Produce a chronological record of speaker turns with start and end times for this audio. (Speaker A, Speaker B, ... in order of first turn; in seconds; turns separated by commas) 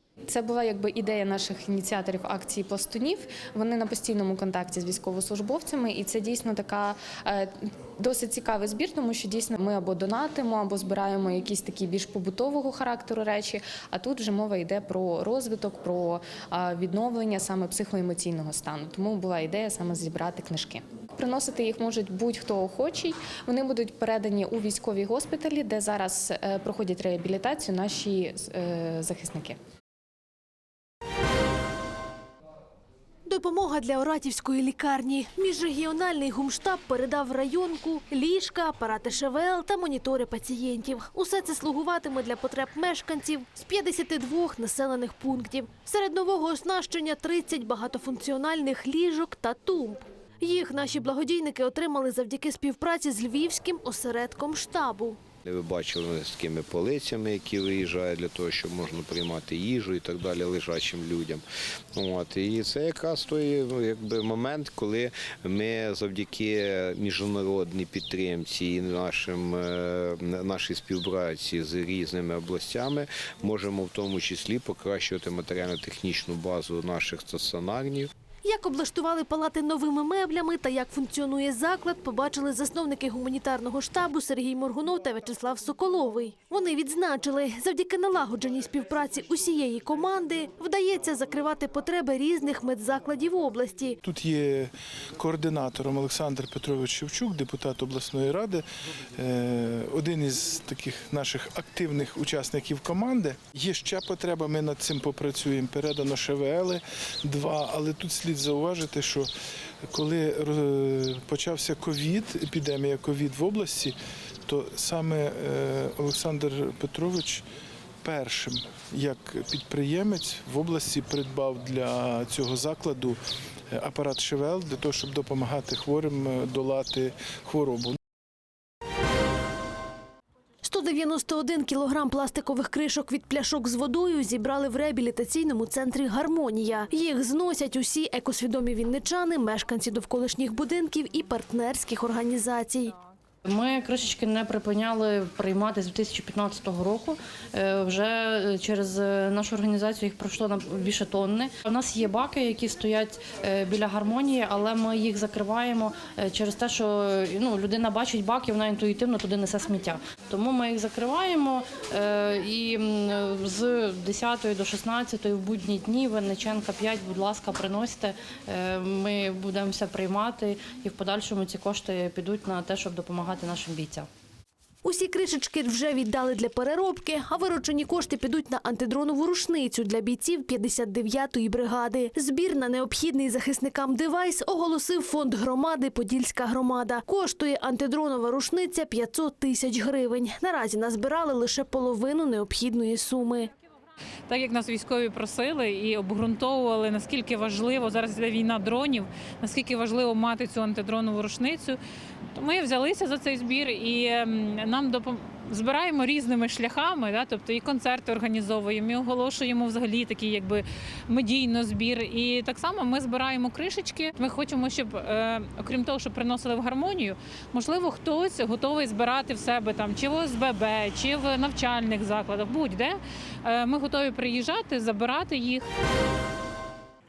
Speaker A: 0.3-29.6, Speaker B: 33.3-55.2, Speaker C: 55.5-61.4, Speaker C: 62.0-78.1, Speaker B: 78.5-94.0, Speaker D: 94.0-98.6, Speaker D: 99.2-109.3, Speaker D: 109.9-113.9, Speaker D: 114.5-117.4, Speaker D: 118.0-123.2, Speaker D: 123.7-128.0, Speaker B: 130.7-142.9, Speaker E: 143.5-174.1, Speaker B: 174.8-193.4, Speaker F: 194.3-201.8, Speaker F: 202.4-225.7